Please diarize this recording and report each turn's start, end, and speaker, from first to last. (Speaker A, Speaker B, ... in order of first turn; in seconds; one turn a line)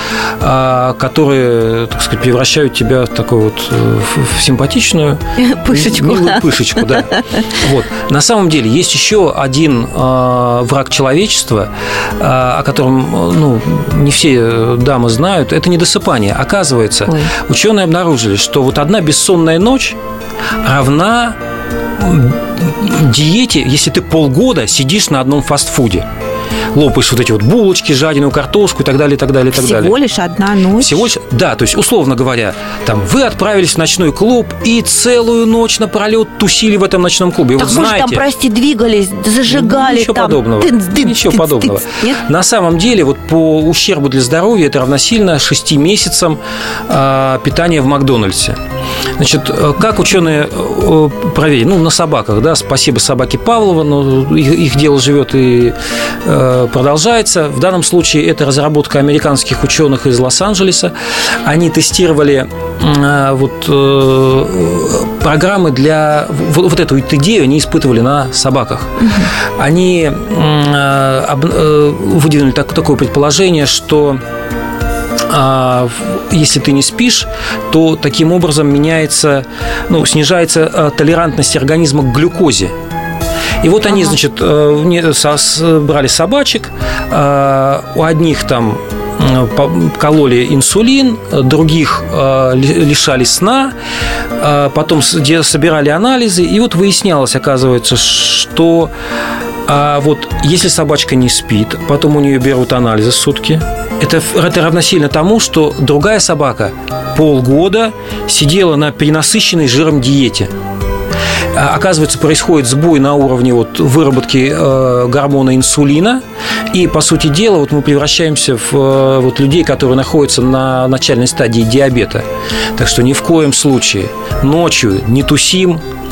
Speaker A: 0.4-20.0
Speaker B: 5.4-7.4
Speaker B: 17.1-17.3
Speaker A: 20.6-21.4
Speaker A: 22.0-26.1
Speaker A: 26.7-29.9
Speaker B: 29.5-31.1
Speaker A: 30.8-38.2
Speaker B: 37.6-42.2
Speaker A: 39.5-48.6
Speaker A: 49.2-60.9
Speaker A: 61.4-74.2
Speaker B: 69.0-69.3
Speaker A: 75.3-82.7
Speaker A: 83.6-93.7
Speaker B: 83.9-84.2
Speaker A: 94.4-98.9
Speaker A: 99.7-110.5
Speaker A: 111.5-125.8